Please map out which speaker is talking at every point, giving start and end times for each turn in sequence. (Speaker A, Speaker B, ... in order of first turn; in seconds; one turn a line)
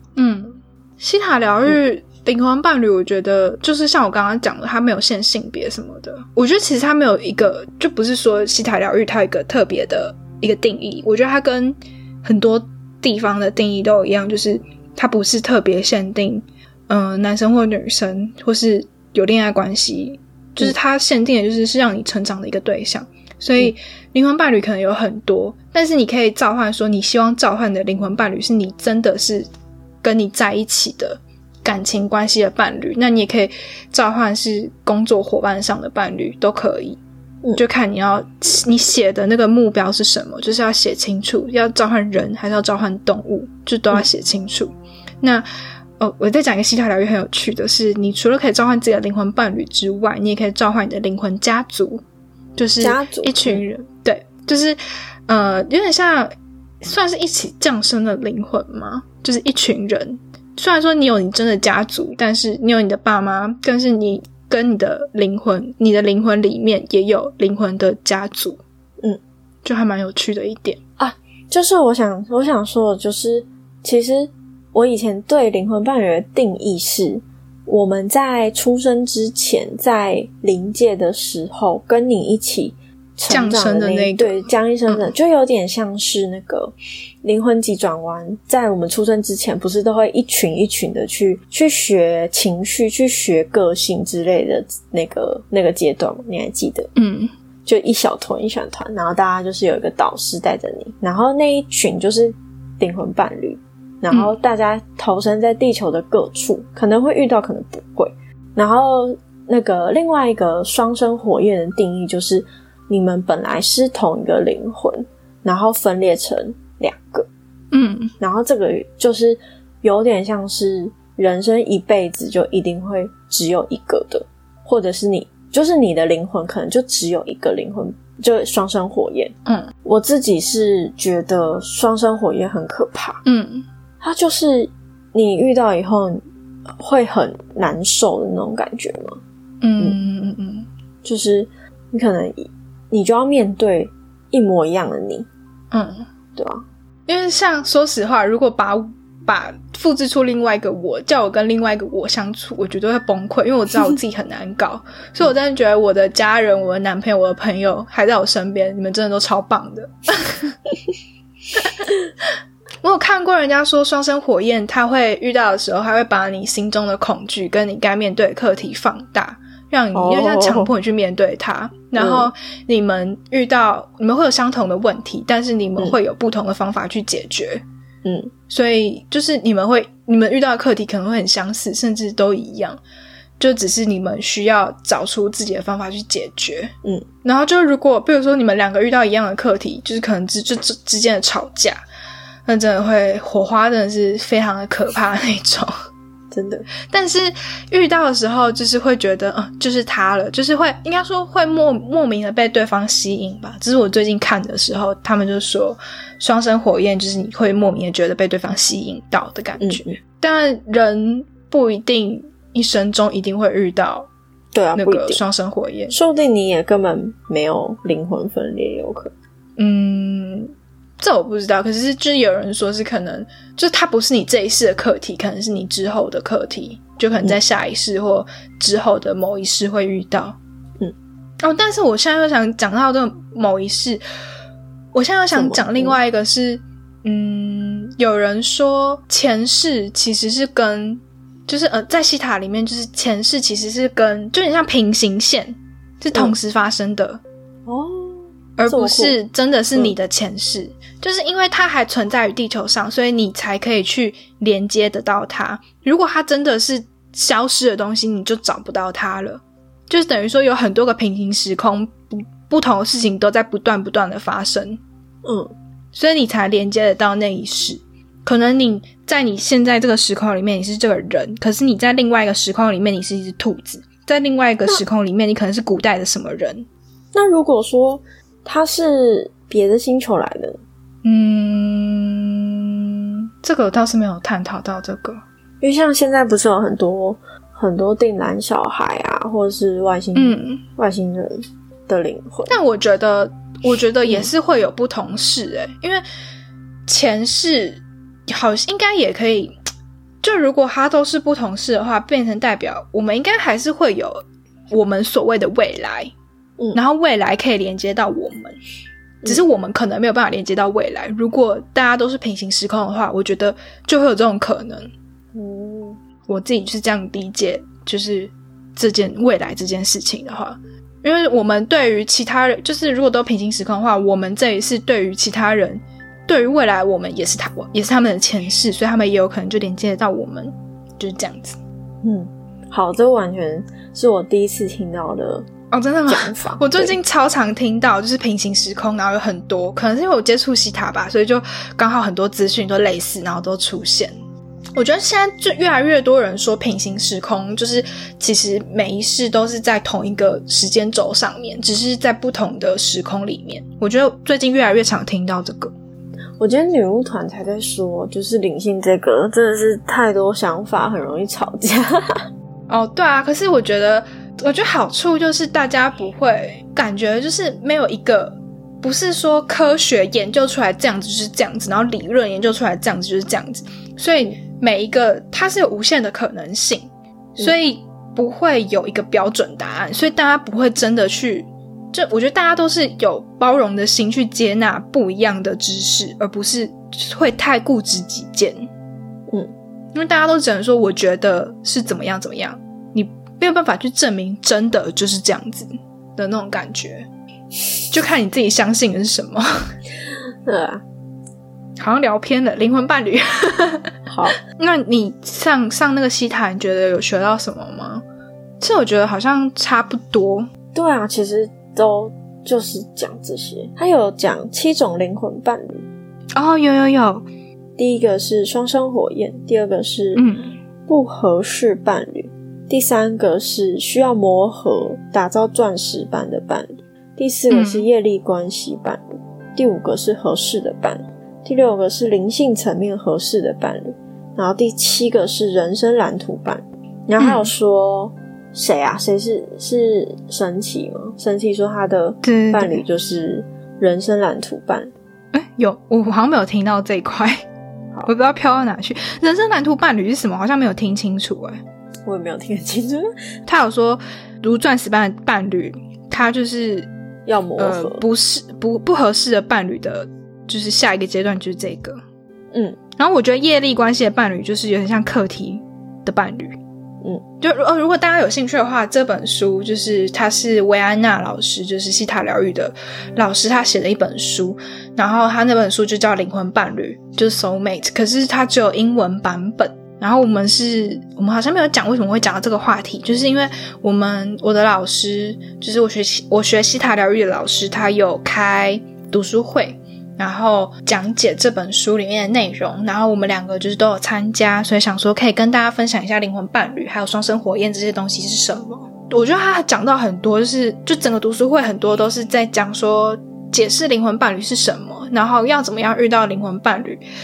Speaker A: 0.2-29.5
Speaker A: 30.0-37.0
Speaker A: 37.6-44.7
Speaker A: 46.0-52.0
Speaker A: 52.6-56.3
Speaker B: 52.8-53.6
Speaker A: 56.8-68.6
Speaker A: 69.6-70.8
Speaker B: 71.0-96.9
Speaker A: 83.3-85.0
Speaker A: 97.0-97.3
Speaker B: 97.7-117.3
Speaker A: 117.7-118.1
Speaker B: 118.2-129.3
Speaker A: 129.5-129.7
Speaker B: 129.8-133.2
Speaker A: 133.2-133.7
Speaker B: 134.0-139.2
Speaker A: 139.6-140.7
Speaker B: 141.0-145.3
Speaker A: 145.7-146.1
Speaker B: 146.4-146.7
Speaker A: 147.1-160.6
Speaker A: 161.6-161.9
Speaker A: 162.8-177.6
Speaker B: 169.9-170.7
Speaker B: 172.0-172.3
Speaker B: 178.0-178.3
Speaker A: 178.5-182.8
Speaker A: 183.4-186.7
Speaker A: 187.2-191.8
Speaker A: 192.5-195.7
Speaker B: 196.3-196.7
Speaker A: 196.9-214.1
Speaker B: 209.6-209.9
Speaker B: 214.5-215.2
Speaker A: 214.8-215.9
Speaker B: 215.9-219.1
Speaker A: 219.6-230.4
Speaker A: 231.4-234.0
Speaker A: 234.9-247.2
Speaker B: 235.3-236.0
Speaker B: 247.7-249.2
Speaker A: 248.6-264.8
Speaker B: 265.2-265.5
Speaker A: 265.9-276.7
Speaker B: 277.1-280.6
Speaker A: 281.0-285.2
Speaker B: 285.6-292.5
Speaker A: 290.1-290.6
Speaker A: 292.5-296.0
Speaker A: 296.9-299.5
Speaker A: 300.2-306.1
Speaker A: 306.7-308.6
Speaker A: 309.2-314.9
Speaker B: 315.4-316.0
Speaker A: 316.3-331.6
Speaker B: 332.0-335.5
Speaker A: 335.7-344.1
Speaker B: 336.1-337.0
Speaker A: 344.8-355.7
Speaker B: 356.4-362.3
Speaker A: 362.7-388.7
Speaker A: 389.9-397.1
Speaker A: 397.9-399.6
Speaker B: 400.5-400.8
Speaker A: 401.8-403.9
Speaker B: 404.1-404.4
Speaker A: 404.4-408.0
Speaker A: 408.6-410.5
Speaker B: 410.7-415.9
Speaker A: 416.3-417.2
Speaker B: 417.8-420.2
Speaker A: 420.2-420.6
Speaker B: 420.9-444.9
Speaker A: 427.5-427.9
Speaker A: 437.2-437.5
Speaker A: 442.2-442.8
Speaker A: 445.3-447.4
Speaker A: 448.0-451.6
Speaker B: 452.1-453.1
Speaker A: 453.5-456.9
Speaker B: 457.3-458.0
Speaker A: 457.6-462.0
Speaker B: 462.5-462.8
Speaker A: 463.0-466.6
Speaker A: 467.4-507.0